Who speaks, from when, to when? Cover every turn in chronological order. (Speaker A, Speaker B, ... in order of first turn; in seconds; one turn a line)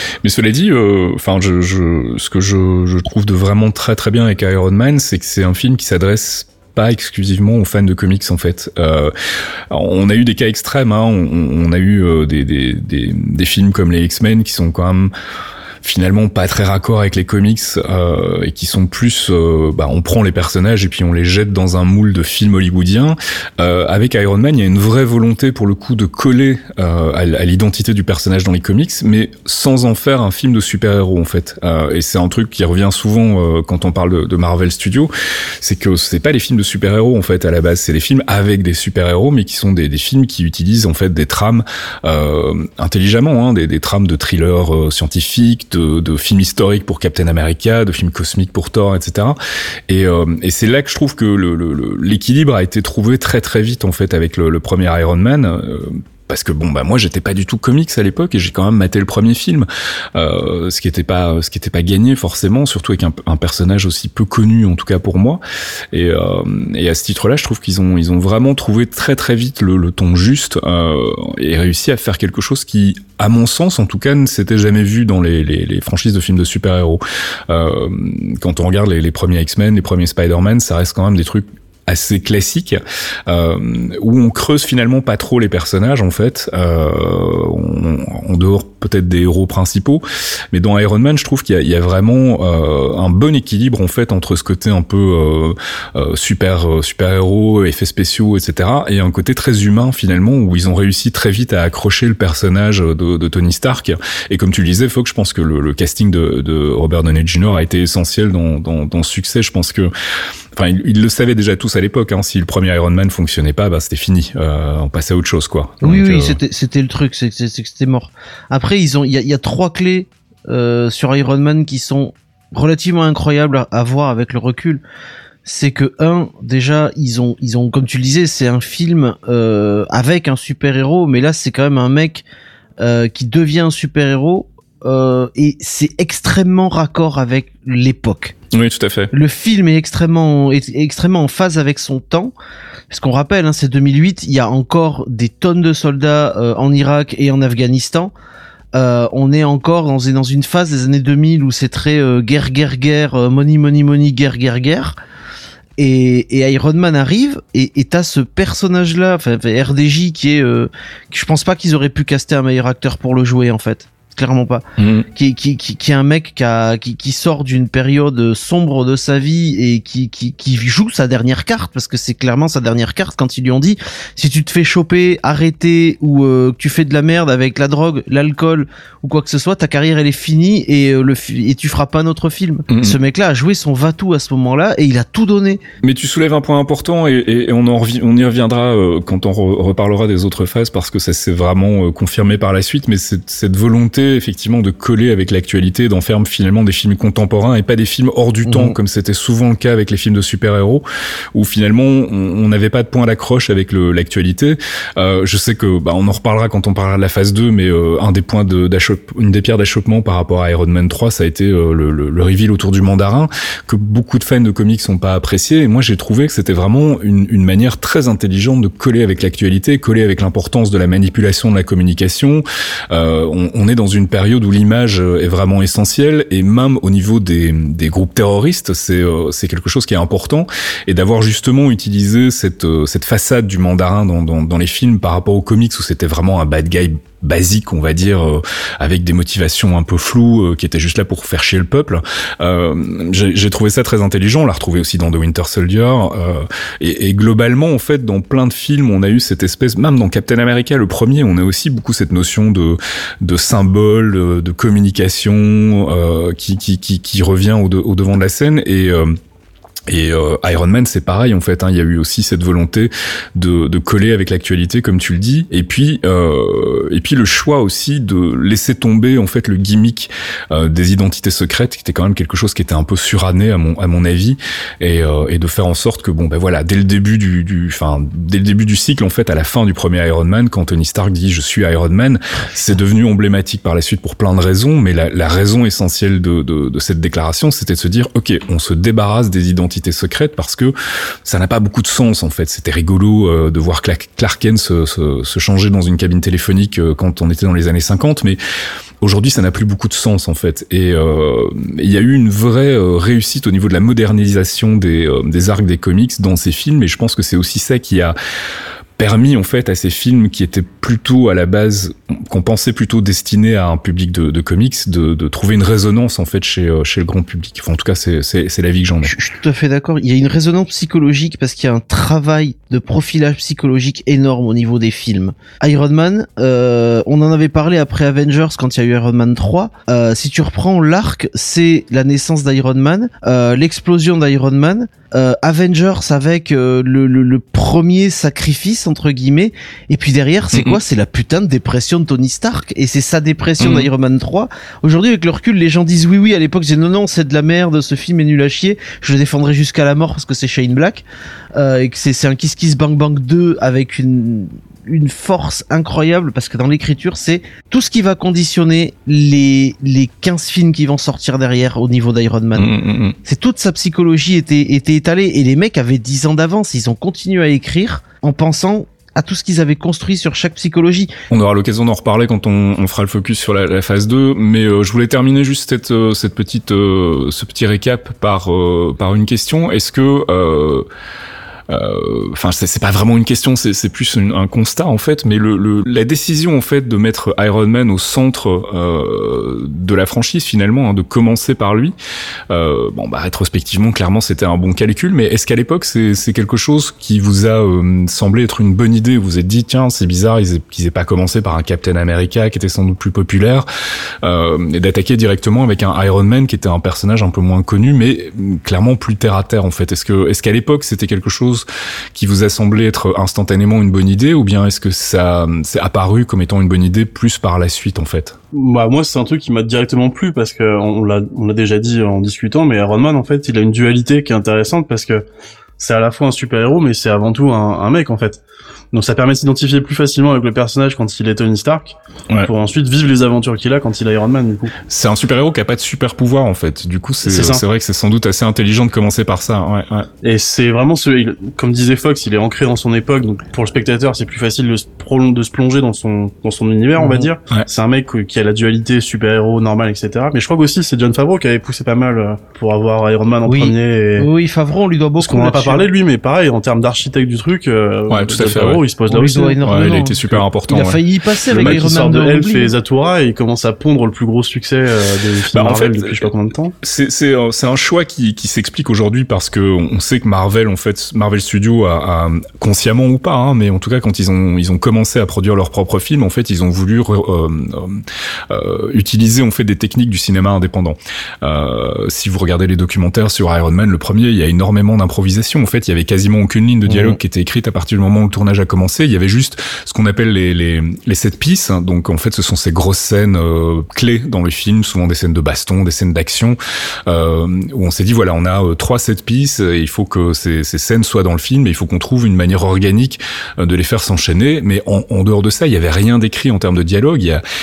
Speaker A: 0.2-9.1
Speaker A: 9.7-15.1
Speaker A: 15.8-35.1
Speaker A: 35.6-49.4
Speaker A: 49.9-65.4
Speaker A: 65.9-109.9
Speaker A: 110.5-116.4
Speaker B: 115.8-124.8
Speaker B: 125.4-132.2
Speaker B: 132.8-138.3
Speaker A: 138.5-139.1
Speaker B: 139.1-142.3
Speaker B: 142.9-148.1
Speaker B: 148.7-155.0
Speaker B: 155.8-185.6
Speaker A: 164.8-165.1
Speaker A: 182.7-183.0
Speaker A: 185.8-259.1
Speaker B: 198.4-198.8
Speaker A: 259.9-290.7
Speaker A: 291.2-298.4
Speaker A: 299.0-308.1
Speaker A: 309.0-319.1
Speaker B: 319.0-371.1
Speaker A: 340.5-340.8
Speaker A: 343.6-343.9
Speaker A: 362.6-363.2
Speaker A: 371.3-380.8
Speaker A: 381.7-391.9
Speaker A: 392.5-403.7
Speaker A: 404.2-418.4
Speaker C: 418.5-425.2
Speaker C: 425.8-428.4
Speaker C: 428.9-434.7
Speaker A: 434.9-440.1
Speaker C: 437.2-437.6
Speaker C: 440.2-454.3
Speaker B: 447.0-447.3
Speaker B: 453.4-455.9
Speaker C: 455.2-459.6
Speaker A: 458.1-458.8
Speaker B: 459.1-462.7
Speaker A: 459.6-461.0
Speaker C: 461.5-466.7
Speaker A: 465.5-466.3
Speaker A: 466.8-507.4
Speaker B: 486.9-487.2